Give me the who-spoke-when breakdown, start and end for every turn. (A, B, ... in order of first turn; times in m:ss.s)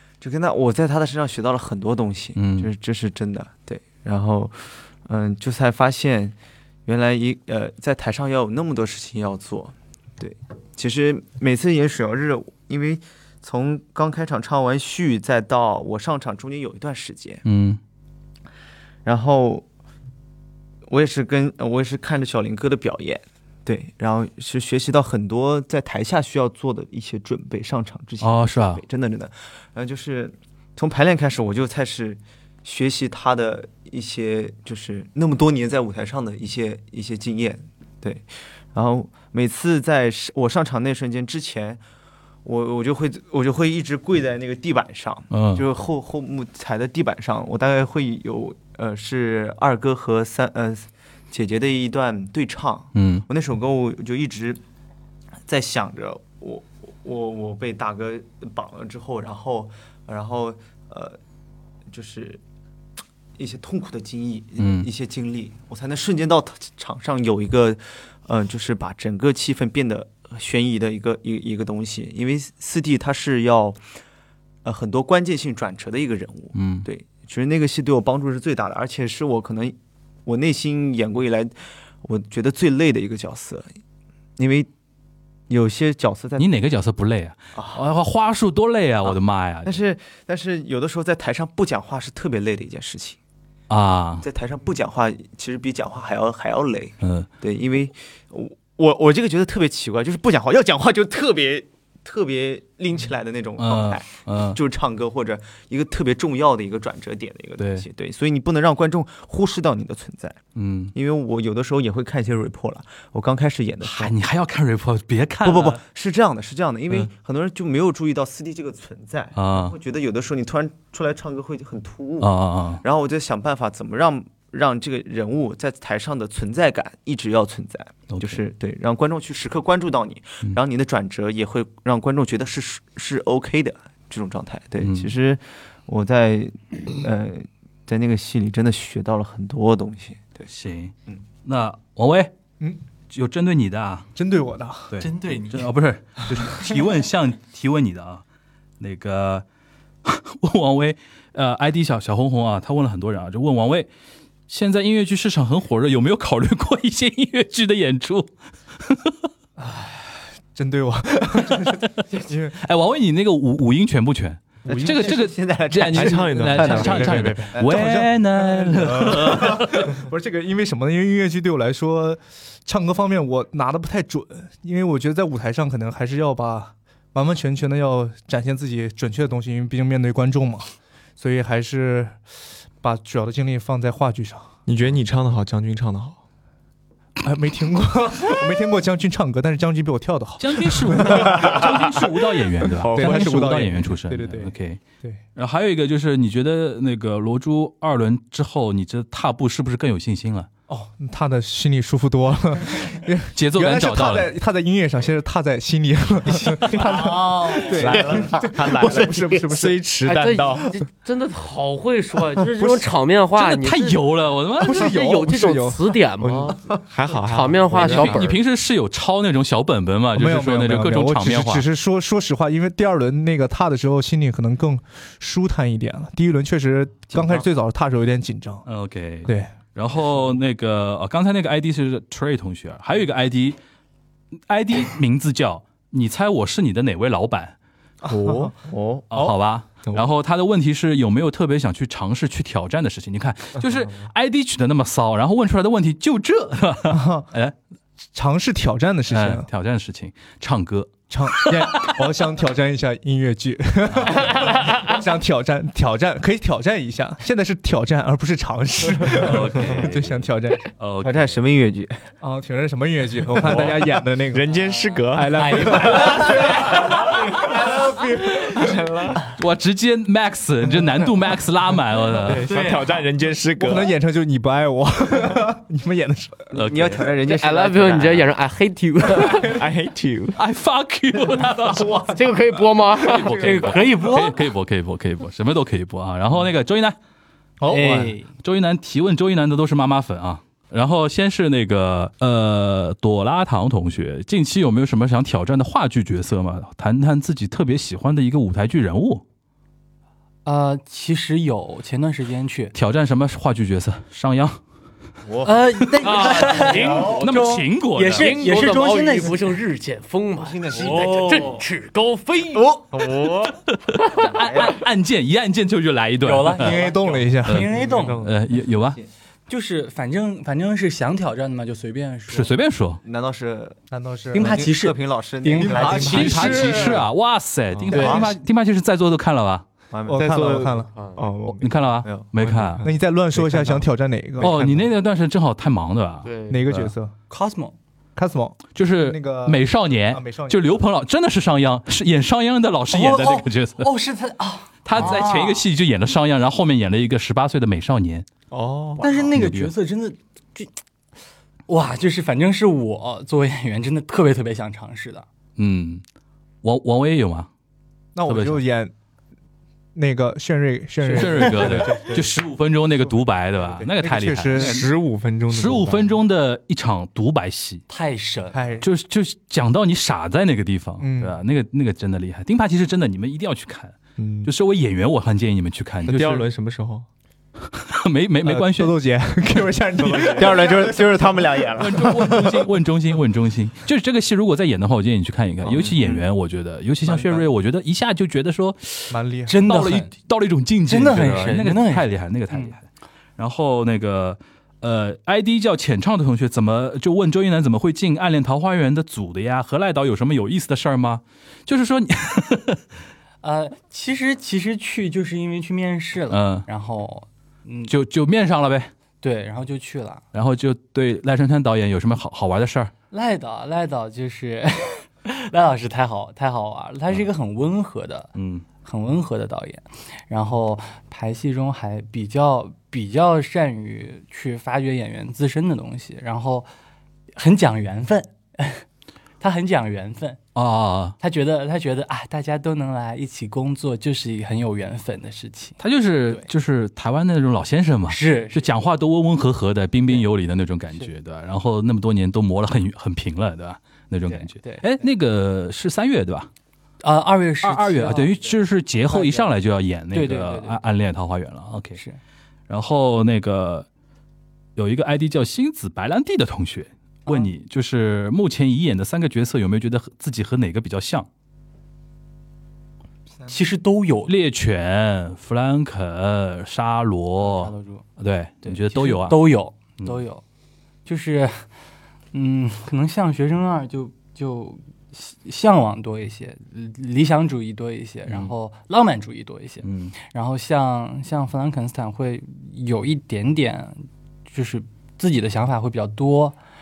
0:00.2-0:17.4 A
0:02.4-0:02.7 B
0:17.4-0:17.8 B
0:19.0-0:19.6 A
0:20.9-0:41.8 A
0:28.2-0:28.8 B
0:42.4-0:54.6 A
0:45.3-0:45.6 B
0:53.0-0:53.3 B
0:55.5-1:01.2 A
1:01.9-1:02.4 A
1:03.4-1:13.8 A
1:04.6-1:04.9 B
1:14.6-1:23.7 A
1:16.6-1:16.9 B
1:24.4-1:24.7 A
1:25.5-1:26.5 A
1:26.4-1:29.8 B
1:27.6-1:27.8 A
1:29.0-1:33.2 A
1:33.7-1:34.3 B
1:34.2-1:50.4 A
1:37.0-1:37.3 B
1:43.6-1:44.6 B
1:47.6-1:47.9 B
1:50.6-1:51.0 B
1:50.9-1:54.1 A
1:53.8-1:55.8 B
1:55.4-2:20.5 A
1:59.4-1:59.8 B
2:02.2-2:02.8 B
2:08.1-2:08.4 B
2:14.8-2:15.1 B
2:20.5-2:22.3 B
2:23.1-2:24.1 B
2:24.2-2:25.0 C
2:24.9-2:28.2 B
2:25.0-2:25.7 D
2:28.8-2:29.4 B
2:30.0-2:33.9 B
2:34.5-2:38.3 B
2:38.8-2:39.1 B
2:39.6-2:42.6 C
2:42.6-2:49.9 B
2:44.6-2:47.6 A
2:44.7-2:45.1 C
2:45.9-2:47.6 E
2:46.4-3:02.2 C
3:02.8-3:04.6 C
3:04.7-3:06.2 E
3:07.2-3:11.6 C
3:10.4-3:14.8 B
3:12.8-3:13.5 E
3:12.9-3:15.2 C
3:15.4-3:20.5 B
3:20.7-3:29.8 C
3:23.4-3:24.3 B
3:27.1-3:27.7 D
3:27.2-3:29.1 F
3:27.7-3:28.9 A
3:27.8-3:30.7 E
3:30.0-3:34.0 F
3:32.6-3:32.9 C
3:33.4-3:34.8 B
3:34.6-3:36.0 C
3:34.6-3:38.4 F
3:36.2-3:38.2 E
3:37.7-3:41.7 B
3:40.2-3:48.6 C
3:47.1-3:47.4 B
3:48.7-3:53.6 B
3:49.3-3:49.5 C
3:54.5-3:57.6 B
3:58.0-3:58.5 C
3:58.1-3:59.1 A
3:59.1-4:07.6 B
4:06.9-4:07.3 C
4:08.2-4:09.5 C
4:09.1-4:12.0 B
4:11.1-4:20.6 C
4:19.0-4:20.2 B
4:20.8-4:21.4 B
4:21.0-4:22.0 A
4:22.2-4:24.5 C
4:23.4-4:29.3 E
4:25.1-4:26.4 C
4:25.4-4:26.5 D
4:28.4-4:28.7 B
4:29.3-4:32.6 B
4:32.2-4:33.9 E
4:32.5-4:32.8 D
4:33.6-4:36.5 C
4:36.5-4:37.1 B
4:36.5-4:38.3 A
4:37.2-4:39.6 F
4:39.4-4:40.4 E
4:40.4-4:42.2 B
4:41.8-4:44.1 F
4:43.0-4:47.0 B
4:43.7-4:44.4 D
4:47.6-4:48.1 C
4:47.7-4:48.3 D
4:48.4-4:59.2 B
5:00.4-5:02.7 D
5:02.7-5:04.6 B
5:05.2-5:07.4 A
5:05.4-5:09.4 D
5:06.0-5:08.4 B
5:06.1-5:07.2 F
5:08.2-5:13.1 F
5:10.4-5:11.6 A
5:10.7-5:11.6 D
5:12.5-5:13.6 A
5:13.9-5:16.8 B
5:14.2-5:14.8 A
5:16.2-5:18.2 D
5:16.5-5:17.8 C
5:17.5-5:19.0 B
5:17.9-5:18.2 A
5:19.5-5:22.5 D
5:22.3-5:23.0 B
5:23.0-5:23.8 A
5:23.9-5:24.7 C
5:24.3-5:26.6 D
5:24.4-5:27.0 A
5:25.6-5:27.0 C
5:26.0-5:29.6 B
5:27.9-5:28.4 A
5:29.9-5:30.7 A
5:30.1-5:30.9 C
5:30.2-5:31.7 E
5:30.9-5:31.2 F
5:31.6-5:32.8 B
5:32.0-5:32.4 A
5:32.4-5:32.8 E
5:32.8-5:34.9 C
5:34.4-5:36.9 B
5:36.2-5:36.7 F
5:36.5-5:37.1 C
5:37.3-5:37.8 D
5:38.2-5:40.8 C
5:38.8-5:43.9 B
5:42.9-5:45.7 D
5:44.8-5:48.3 B
5:48.5-5:49.1 E
5:49.0-5:50.7 D
5:49.4-5:49.7 B
5:51.7-5:55.3 D
5:55.6-5:56.0 B
5:56.6-5:57.5 B
5:58.2-5:58.9 C
5:58.3-5:58.6 B
6:00.0-6:02.4 C
6:01.1-6:04.9 B
6:01.4-6:01.8 D
6:03.8-6:04.8 C
6:04.6-6:06.1 E
6:05.5-6:07.8 B
6:07.9-6:08.6 D
6:08.5-6:08.9 C
6:08.8-6:16.5 B
6:11.0-6:11.4 C
6:14.2-6:14.5 E
6:16.1-6:17.1 E
6:17.7-6:19.0 B
6:18.4-6:21.2 C
6:20.0-6:20.6 E
6:20.2-6:22.5 A
6:21.8-6:32.8 B
6:25.6-6:26.2 E
6:29.1-6:29.6 C
6:29.5-6:30.1 D
6:30.9-6:32.7 D
6:33.4-6:42.8 B
6:43.4-6:47.9 D
6:46.3-6:46.7 B
6:47.9-6:48.9 B
6:49.2-6:50.2 D
6:50.3-6:52.9 B
6:53.1-6:58.3 D
6:58.4-6:58.6 B
6:58.8-7:06.7 D
7:07.4-7:08.8 D
7:09.4-7:10.4 D
7:10.6-7:11.2 B
7:11.2-7:15.8 D
7:15.8-7:26.5 B
7:18.1-7:18.7 D
7:24.3-7:25.0 D
7:27.0-7:28.6 D
7:27.6-7:32.0 B
7:29.1-7:29.5 D
7:30.1-7:30.8 D
7:32.7-7:33.9 B
7:34.8-7:41.3 B
7:43.5-7:44.3 D
7:44.3-7:49.4 B
7:47.4-7:48.0 D
7:48.6-7:50.4 D
7:51.1-7:51.7 D
7:52.3-8:06.6 D
7:58.3-7:58.5 B
7:59.8-8:00.2 B